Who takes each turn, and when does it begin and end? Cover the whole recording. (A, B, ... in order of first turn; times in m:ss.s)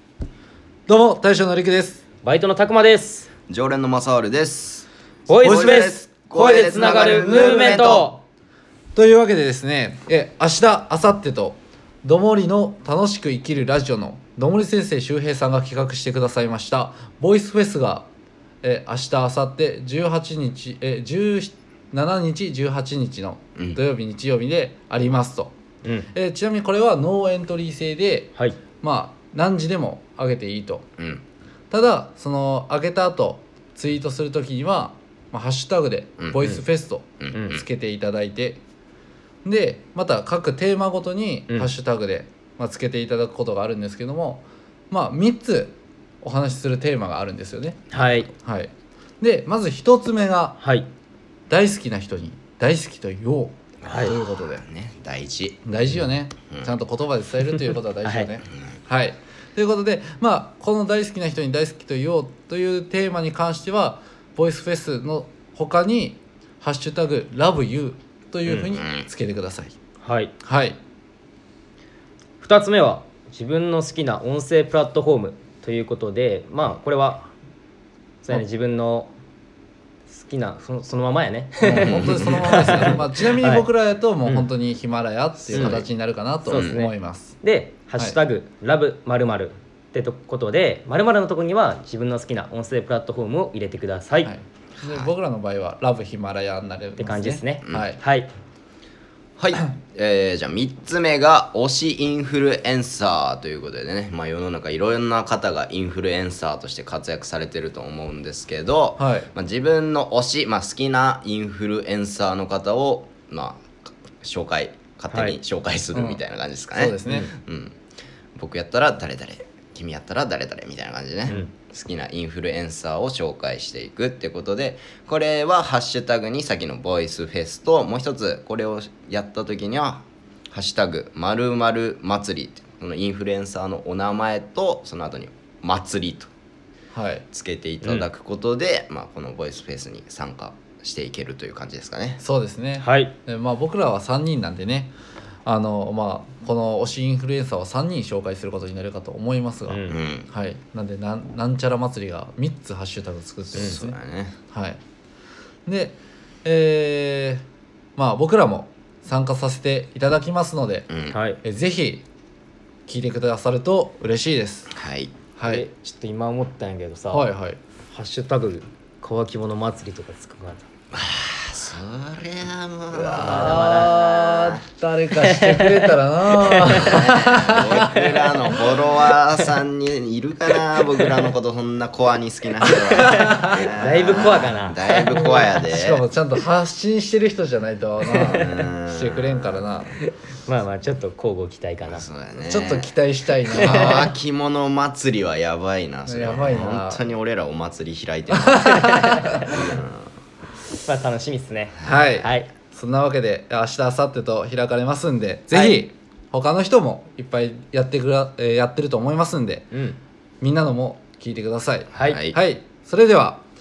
0:00.9-0:02.0 A
0:02.2-0:03.3 B
0:03.5-0:08.1 C
0:05.3-0:08.2 B
0:05.4-0:08.0 A
0:09.0-0:18.1 A
0:18.6-0:25.5 A
0:26.1-0:30.8 A
0:31.0-0:31.2 C
0:31.7-0:38.6 A
0:36.2-0:36.5 C
0:37.2-0:37.6 C
0:39.4-0:50.6 A
0:47.9-0:48.3 B
0:50.6-0:50.9 B
0:51.5-0:54.6 A
0:53.8-0:55.6 C
0:53.9-0:54.1 B
0:55.7-1:09.7 A
0:58.0-0:58.3 B
1:08.8-1:09.1 C
1:10.0-1:10.3 B
1:10.4-1:10.8 A
1:12.4-1:17.3 B
1:18.2-1:19.1 B
1:20.1-1:23.7 B
1:21.6-1:27.4 A
1:21.8-1:23.0 C
1:25.5-1:25.9 C
1:25.5-1:25.8 B
1:26.5-1:34.3 B
1:26.5-1:26.8 C
1:34.2-1:38.0 A
1:34.8-1:35.1 C
1:37.0-1:38.3 B
1:39.4-1:57.8 C
1:49.0-1:49.3 A
1:55.1-1:55.4 B
1:55.9-1:56.2 A
1:56.7-1:57.3 A
1:58.4-2:16.3 C
2:16.9-2:17.3 A
2:17.3-2:22.2 C
2:22.2-2:24.9 A
2:22.8-2:23.2 B
2:25.5-2:34.0 A
2:29.7-2:30.0 B
2:29.9-2:30.3 C
2:33.5-2:34.4 C
2:34.5-2:34.8 A
2:35.7-2:37.4 A
2:38.0-2:40.9 A
2:40.9-2:41.2 C
2:41.1-2:41.4 B
2:41.4-2:42.0 A
2:42.9-2:44.7 A
2:44.7-2:45.1 C
2:45.4-2:45.6 A
2:45.4-2:47.3 B
2:47.1-2:47.6 A
2:47.9-2:50.6 B
2:50.9-2:54.6 C
2:52.9-2:57.8 A
2:53.1-2:54.4 B
2:55.5-2:55.8 B
2:56.5-2:57.0 B
2:56.7-3:06.0 C
2:57.8-2:59.4 B
3:01.0-3:01.2 B
3:02.7-3:05.2 B
3:03.0-3:03.6 A
3:05.1-3:09.9 A
3:08.1-3:09.8 C
3:10.4-3:12.0 B
3:11.8-3:12.9 C
3:12.4-3:14.1 A
3:13.5-3:20.1 C
3:13.6-3:14.0 B
3:16.1-3:17.0 A
3:18.4-3:19.2 A
3:18.7-3:19.6 B
3:20.8-3:22.5 B
3:21.8-3:29.7 A
3:25.5-3:25.8 B
3:29.7-3:30.0 B
3:30.4-3:33.4 A
3:31.9-3:32.2 B
3:32.0-3:32.4 C